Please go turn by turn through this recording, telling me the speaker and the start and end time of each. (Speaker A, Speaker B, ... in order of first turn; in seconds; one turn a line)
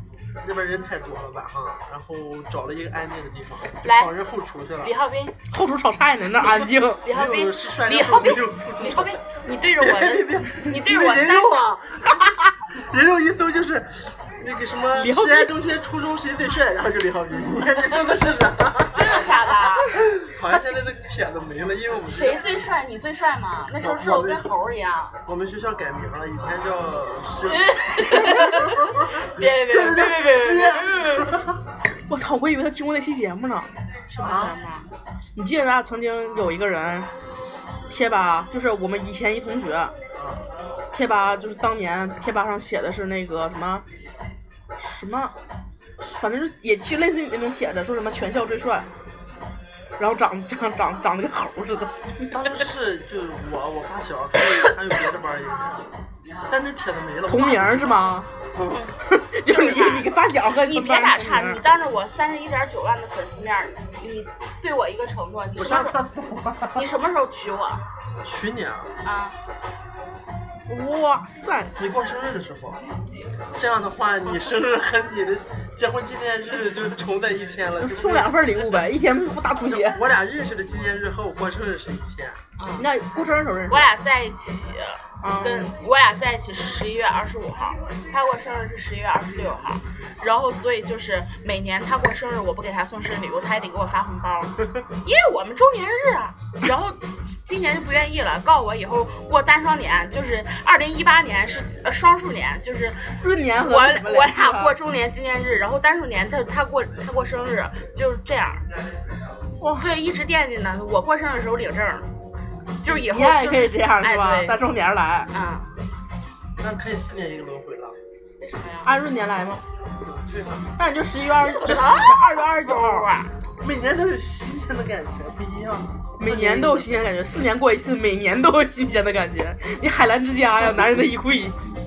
Speaker A: 0.4-4.9
Speaker B: 3.8-4.1
Speaker B: 4.8-5.3
Speaker C: 5.5-7.0
Speaker B: 7.0-11.7
Speaker A: 7.0-9.2
Speaker A: 9.8-19.3
Speaker C: 14.9-15.5
Speaker B: 18.9-19.9
Speaker A: 20.2-22.4
Speaker B: 22.1-25.1
Speaker A: 23.8-24.4
Speaker A: 25.3-27.7
Speaker B: 27.5-31.4
Speaker A: 28.3-31.4
Speaker C: 32.1-33.7
Speaker B: 34.1-34.9
Speaker A: 34.2-34.5
Speaker C: 35.4-37.1
Speaker C: 37.9-39.9
Speaker A: 40.1-40.5
Speaker C: 40.9-43.8
Speaker C: 44.8-45.3
Speaker C: 46.0-48.9
Speaker C: 50.0-52.4
Speaker A: 52.3-55.9
Speaker A: 56.5-58.0
Speaker C: 57.2-58.3
Speaker A: 58.5-58.9
Speaker C: 59.0-61.6
Speaker B: 59.5-66.0
Speaker A: 65.6-66.8
Speaker B: 66.7-67.8
Speaker A: 68.2-68.9
Speaker B: 69.0-69.3
Speaker C: 70.7-71.7
Speaker A: 71.8-72.8
Speaker A: 73.6-78.3
Speaker C: 77.8-80.0
Speaker A: 79.7-82.4
Speaker B: 82.6-82.9
Speaker C: 82.8-83.9
Speaker B: 83.7-108.6
Speaker C: 85.2-85.7
Speaker C: 103.2-104.7
Speaker B: 109.7-112.1
Speaker B: 112.8-114.6
Speaker C: 112.8-115.3
Speaker B: 115.3-115.7
Speaker A: 116.6-118.0
Speaker B: 118.4-119.0
Speaker C: 118.8-119.6
Speaker A: 120.0-120.7
Speaker C: 120.8-123.1
Speaker B: 121.4-123.3
Speaker A: 123.6-126.9
Speaker C: 126.2-131.5